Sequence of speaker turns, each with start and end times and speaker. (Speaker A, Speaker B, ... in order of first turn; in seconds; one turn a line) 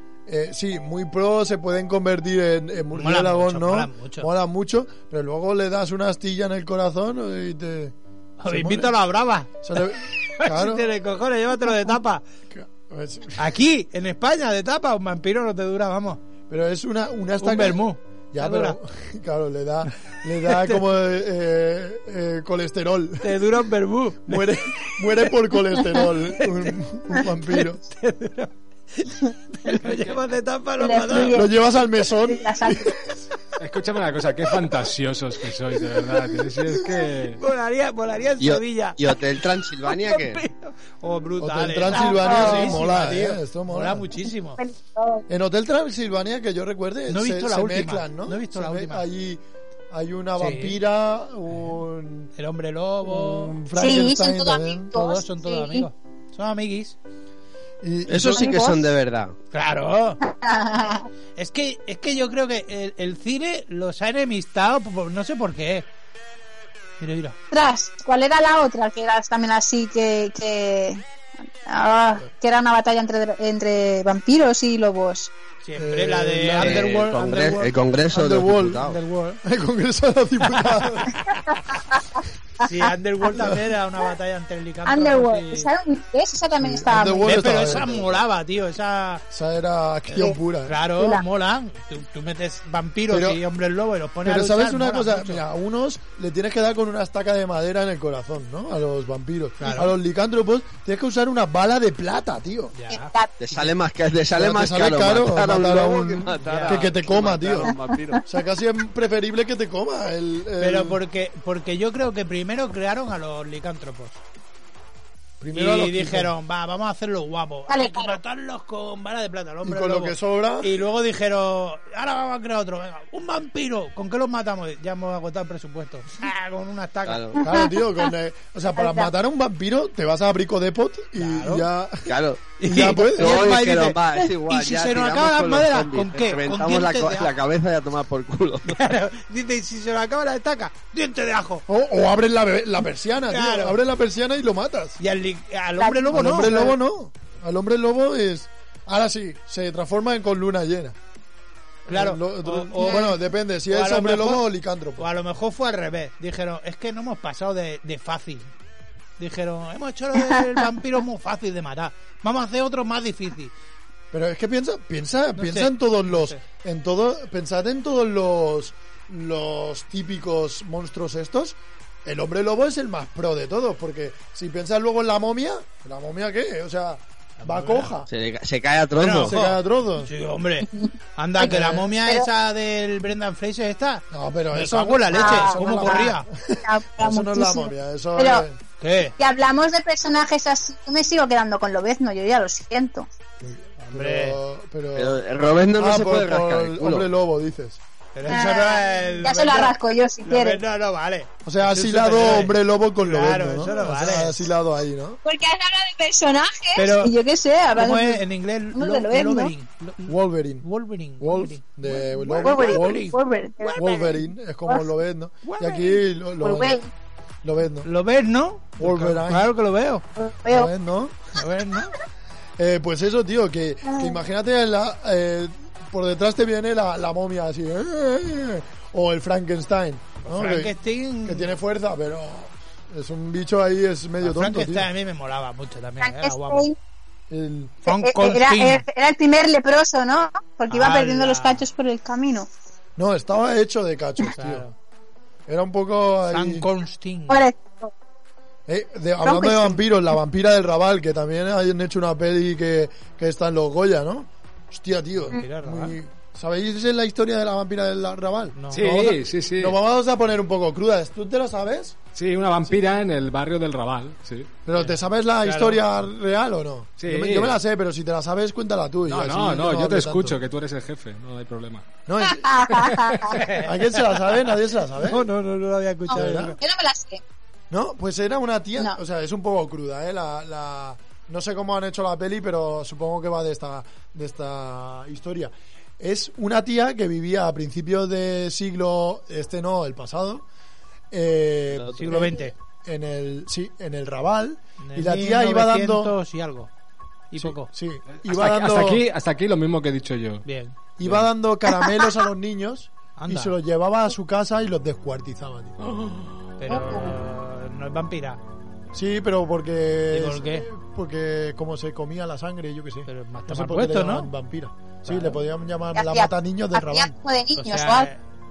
Speaker A: 0.3-8.0
Speaker B: 3.0-4.3
Speaker B: 8.4-12.2
Speaker A: 8.5-8.9
Speaker A: 9.6-10.9
Speaker A: 12.5-13.5
Speaker B: 13.4-16.2
Speaker A: 16.5-23.4
Speaker B: 17.4-18.8
Speaker B: 20.5-20.8
Speaker B: 23.2-24.4
Speaker A: 24.3-27.8
Speaker B: 27.6-31.4
Speaker C: 30.8-32.9
Speaker A: 31.3-33.0
Speaker D: 33.6-37.4
Speaker B: 37.4-39.2
Speaker E: 38.4-40.4
Speaker B: 39.8-44.6
Speaker A: 41.4-44.2
Speaker C: 41.9-42.8
Speaker C: 44.6-45.2
Speaker A: 45.3-52.3
Speaker B: 47.1-49.1
Speaker B: 50.4-50.8
Speaker B: 52.4-53.6
Speaker A: 53.0-54.9
Speaker C: 53.8-55.9
Speaker B: 54.9-57.0
Speaker A: 57.8-58.6
Speaker E: 58.1-59.4
Speaker C: 58.3-58.8
Speaker B: 59.5-60.2
Speaker C: 60.3-61.1
Speaker B: 61.4-65.9
Speaker B: 67.0-67.4
Speaker C: 67.5-71.0
Speaker C: 71.7-75.3
Speaker B: 75.6-77.8
Speaker A: 75.8-77.4
Speaker E: 76.6-79.0
Speaker A: 78.1-78.9
Speaker B: 78.9-79.4
Speaker A: 79.4-81.2
Speaker C: 81.3-83.4
Speaker B: 82.6-85.7
Speaker A: 83.3-83.6
Speaker C: 84.9-87.9
Speaker A: 86.6-88.2
Speaker B: 87.2-89.2
Speaker A: 89.3-90.8
Speaker B: 90.2-95.4
Speaker C: 91.0-91.2
Speaker A: 93.1-93.4
Speaker A: 94.2-102.7
Speaker B: 99.6-100.0
Speaker B: 102.7-103.7
Speaker C: 102.9-103.3
Speaker E: 103.4-108.2
Speaker A: 104.3-107.7
Speaker B: 106.4-106.9
Speaker A: 108.3-111.0
Speaker B: 110.6-114.2
Speaker A: 115.4-116.3
Speaker B: 115.5-127.4
Speaker C: 117.7-118.2
Speaker A: 119.6-120.7
Speaker E: 127.0-127.4
Speaker A: 127.4-133.4
Speaker C: 127.4-127.7
Speaker C: 128.8-129.1
Speaker B: 131.2-131.7
Speaker E: 132.1-132.5
Speaker B: 132.6-137.3
Speaker E: 133.1-138.8
Speaker B: 138.7-141.6
Speaker A: 141.7-145.0
Speaker B: 143.3-143.8
Speaker B: 145.0-146.8
Speaker C: 145.8-146.2
Speaker A: 146.1-151.0
Speaker B: 151.9-154.4
Speaker A: 151.9-155.1
Speaker B: 155.0-158.5
Speaker B: 159.2-163.5
Speaker A: 164.1-178.1
Speaker B: 165.3-166.4
Speaker B: 177.4-177.9
Speaker E: 178.1-179.3
Speaker B: 179.0-186.3
Speaker A: 179.2-180.1
Speaker C: 180.8-182.3
Speaker A: 181.4-181.8
Speaker A: 184.1-188.6
Speaker C: 185.1-188.4
Speaker B: 188.8-189.2
Speaker C: 189.2-193.1
Speaker A: 193.4-195.2
Speaker B: 193.8-194.4
Speaker E: 194.9-197.1
Speaker A: 195.8-198.8
Speaker B: 198.2-199.7
Speaker C: 198.3-200.6
Speaker A: 199.3-199.6
Speaker B: 200.2-204.5
Speaker A: 201.4-205.2
Speaker C: 205.2-209.5
Speaker B: 206.8-207.1
Speaker B: 207.8-214.1
Speaker A: 210.1-210.7
Speaker A: 211.2-213.1
Speaker C: 212.4-214.1
Speaker A: 213.8-216.8
Speaker B: 215.4-216.0
Speaker C: 216.4-216.9
Speaker A: 217.4-217.9
Speaker B: 217.8-220.1
Speaker A: 218.8-219.5
Speaker C: 220.2-220.7
Speaker A: 220.5-221.2
Speaker B: 221.3-221.9
Speaker A: 222.6-230.7
Speaker C: 223.9-224.2
Speaker B: 230.2-231.6
Speaker A: 231.2-234.9
Speaker B: 234.2-236.7
Speaker C: 236.0-236.8
Speaker A: 237.3-237.9
Speaker B: 237.8-238.8
Speaker C: 237.9-242.5
Speaker B: 240.7-241.7
Speaker A: 243.0-244.7
Speaker B: 244.3-244.8
Speaker A: 245.5-246.7
Speaker B: 246.3-247.4
Speaker C: 247.3-247.9
Speaker A: 248.7-262.0
Speaker C: 249.2-249.8
Speaker B: 255.3-255.9
Speaker B: 258.6-258.8
Speaker D: 258.7-259.8
Speaker D: 262.1-264.5
Speaker A: 264.7-270.4
Speaker B: 264.8-265.8
Speaker D: 267.0-267.6
Speaker D: 269.1-272.0
Speaker A: 272.1-272.9
Speaker C: 272.2-273.4
Speaker D: 272.9-273.4
Speaker B: 273.4-274.2
Speaker A: 273.6-275.3
Speaker B: 275.0-276.6
Speaker C: 276.1-277.2
Speaker A: 276.1-276.5
Speaker A: 277.7-290.4
Speaker A: 291.1-296.1
Speaker B: 291.9-292.5
Speaker B: 294.8-296.7
Speaker B: 297.3-297.7
Speaker A: 297.4-299.0
Speaker D: 298.2-300.4
Speaker B: 300.5-300.8
Speaker A: 301.0-305.8
Speaker B: 303.2-303.6
Speaker D: 305.9-306.2
Speaker B: 306.6-308.4
Speaker C: 306.7-307.1
Speaker A: 308.9-317.1
Speaker B: 310.1-310.7
Speaker B: 313.1-314.3
Speaker B: 315.1-315.4
Speaker C: 315.9-318.1
Speaker B: 317.6-318.2